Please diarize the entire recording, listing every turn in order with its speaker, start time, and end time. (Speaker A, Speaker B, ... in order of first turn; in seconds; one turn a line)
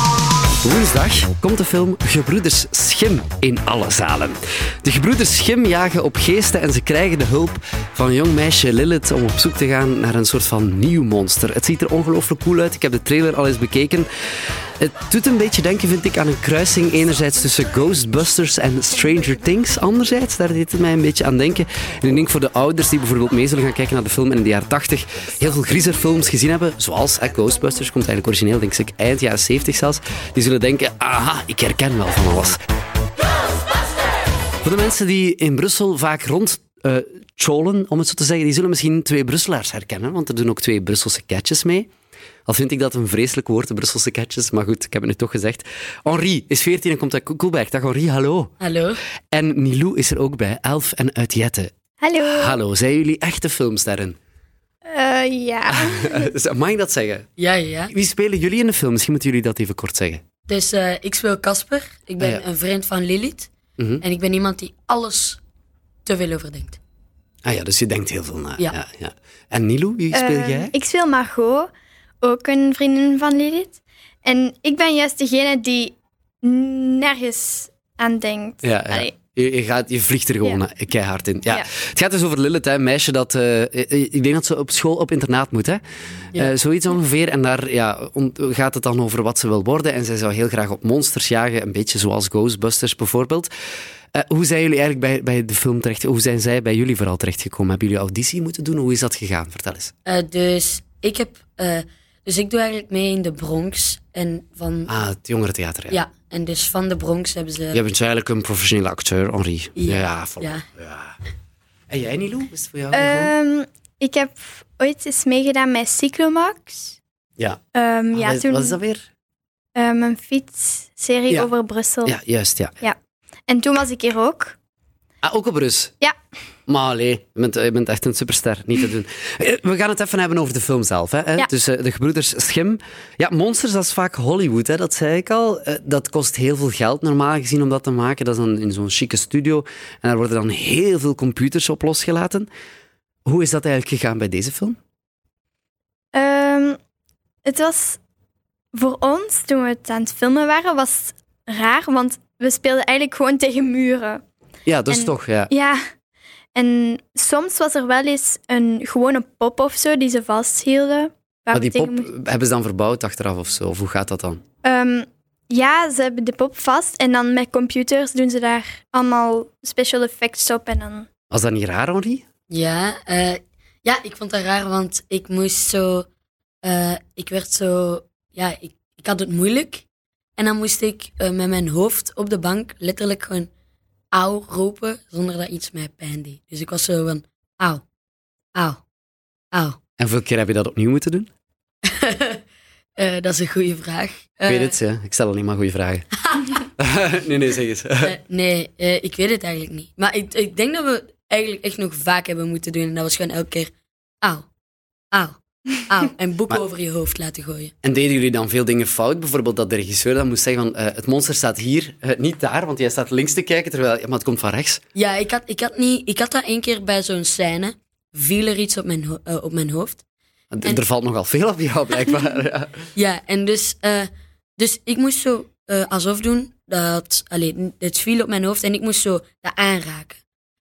Speaker A: 0.6-14.1
Speaker A: 14.8-32.6
Speaker A: 34.6-41.9
Speaker A: 42.5-48.5
Speaker B: 48.6-49.0
Speaker A: 49.3-54.2
Speaker C: 52.0-52.6
Speaker C: 54.9-56.3
Speaker A: 55.7-57.3
Speaker B: 57.4-57.9
Speaker A: 58.0-60.2
Speaker B: 60.5-63.5
Speaker B: 64.0-65.4
Speaker B: 66.0-66.8
Speaker A: 67.4-70.7
Speaker C: 70.1-71.7
Speaker C: 72.2-79.3
Speaker A: 78.6-85.8
Speaker C: 81.5-81.7
Speaker A: 86.4-93.5
Speaker A: 94.1-99.9
Speaker B: 100.0-104.9
Speaker A: 104.9-106.0
Speaker B: 105.9-107.8
Speaker A: 107.7-111.2
Speaker B: 109.8-110.7
Speaker A: 111.9-113.3
Speaker C: 112.9-117.0
Speaker C: 117.7-118.8
Speaker A: 118.1-119.0
Speaker C: 119.8-122.2
Speaker A: 122.1-122.7
Speaker C: 123.5-124.6
Speaker A: 125.2-125.9
Speaker A: 126.7-142.5
Speaker A: 143.2-144.8
Speaker C: 146.1-146.8
Speaker C: 147.4-148.0
Speaker C: 148.7-154.2
Speaker A: 154.7-155.5
Speaker C: 154.9-155.8
Speaker C: 156.6-162.2
Speaker A: 161.5-164.4
Speaker C: 164.6-171.1
Speaker A: 171.3-172.2
Speaker B: 172.5-176.1
Speaker B: 176.6-179.8
Speaker B: 180.4-183.5
Speaker B: 184.1-187.8
Speaker B: 188.6-188.8
Speaker B: 189.5-189.8
Speaker A: 190.0-191.3
Speaker B: 191.8-192.4
Speaker B: 193.0-194.8
Speaker A: 194.5-196.1
Speaker B: 196.2-196.7
Speaker A: 196.8-198.1
Speaker B: 198.0-203.7
Speaker B: 205.1-207.7
Speaker A: 207.8-214.8
Speaker B: 214.9-220.0
Speaker A: 220.5-222.9
Speaker B: 222.9-230.2